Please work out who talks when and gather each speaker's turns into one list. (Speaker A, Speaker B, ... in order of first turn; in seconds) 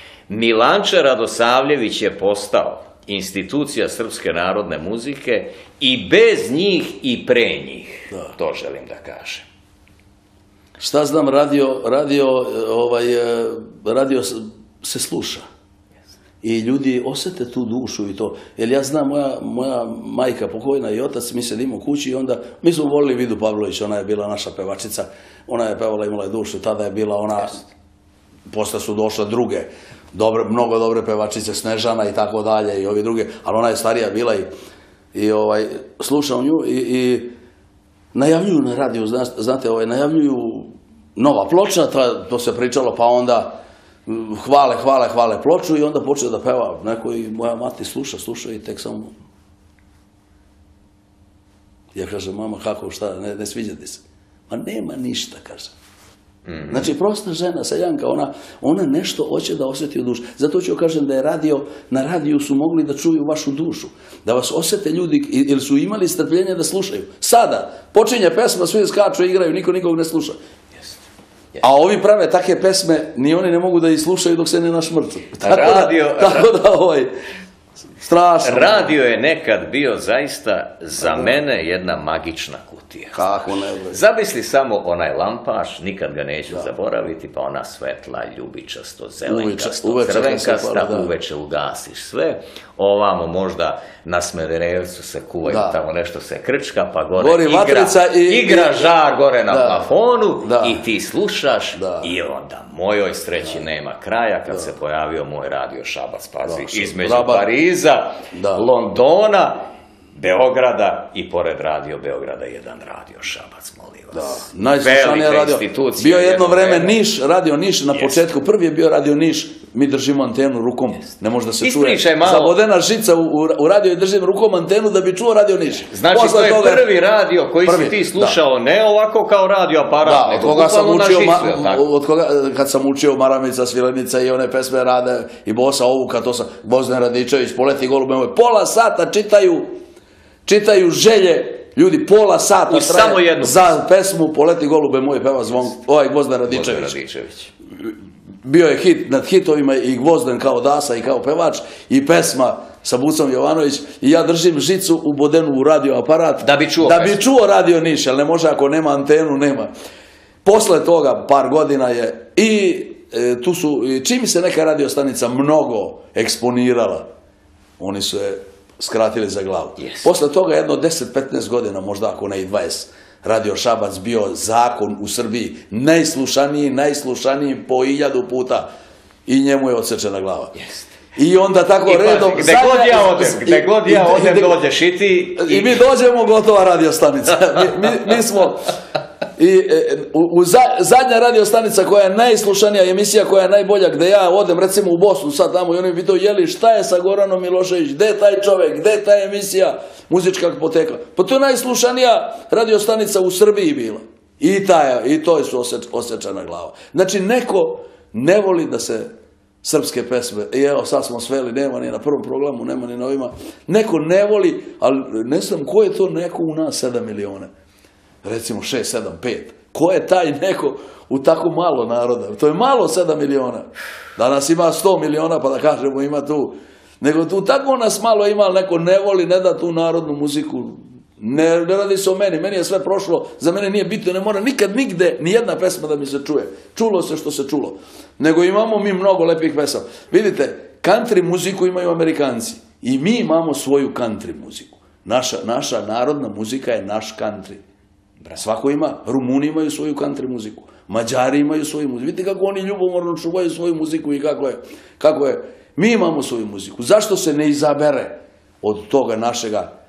Speaker A: 0.3-9.5, 56.5-56.9, 75.4-76.5, 78.4-83.2, 83.9-109.6, 110.2-117.0, 117.9-118.2, 121.6-122.6, 125.9-131.8, 142.7-143.8, 146.5-147.5, 156.4-157.2, 169.8-170.1, 180.6-180.9, 181.8-185.8
Speaker B: 10.8-15.4, 16.4-27.7, 28.5-34.5, 35.1-37.3, 38.1-49.1, 52.0-55.7, 56.7-70.4, 71.6-77.1, 78.0-78.9, 81.0-81.3, 83.1-84.0, 89.3-91.1, 95.5-95.8, 97.2-98.9, 99.5-99.9, 100.4-100.8, 101.8-102.1, 106.5-107.5, 108.3-108.7, 114.1-126.9, 127.6-128.4, 130.0-139.7, 140.5-147.0, 148.4-159.7, 160.4-167.1, 167.8-178.7, 179.3-180.6, 181.2-184.6, 185.4-188.7, 189.4-209.1, 209.6-217.5, 218.2-247.6, 248.3-259.7